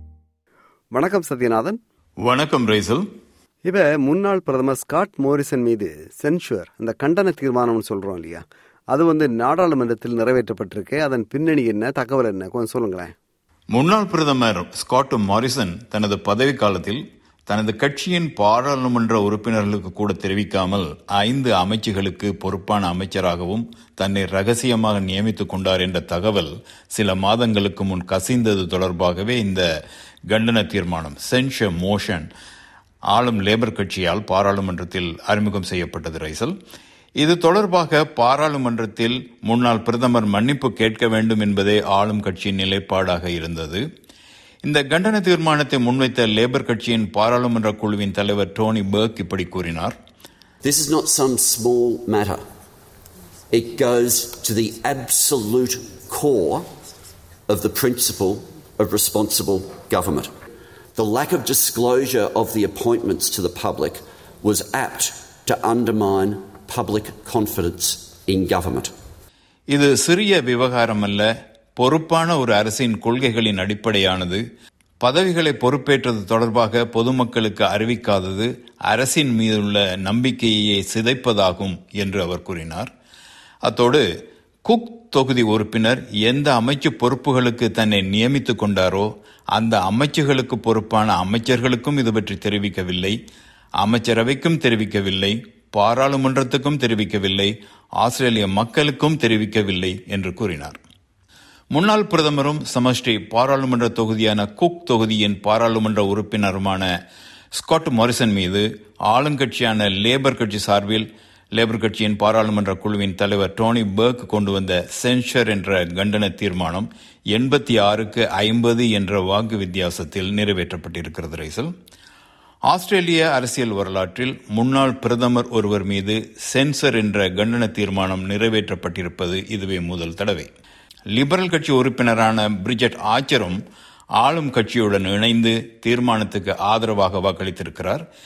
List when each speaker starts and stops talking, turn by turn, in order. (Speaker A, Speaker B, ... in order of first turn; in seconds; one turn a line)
Speaker A: 0.9-1.8
Speaker B: 2.2-3.1
Speaker A: 3.7-13.1
Speaker B: 13.7-29.7
Speaker B: 30.3-32.3
Speaker B: 33.1-36.6
Speaker B: 37.2-43.9
Speaker B: 44.6-50.0
Speaker C: 50.6-52.4
Speaker C: 53.5-56.7
Speaker C: 57.5-60.3
Speaker C: 61.0-68.9
Speaker B: 69.7-74.4
Speaker B: 75.0-82.9
Speaker B: 83.6-84.1
Speaker B: 84.7-93.2
Speaker B: 93.8-100.8
Speaker B: 101.7-107.0
Speaker B: 107.5-121.7
Speaker B: 122.7-130.5
Speaker B: 131.1-133.6
Speaker B: 134.2-138.1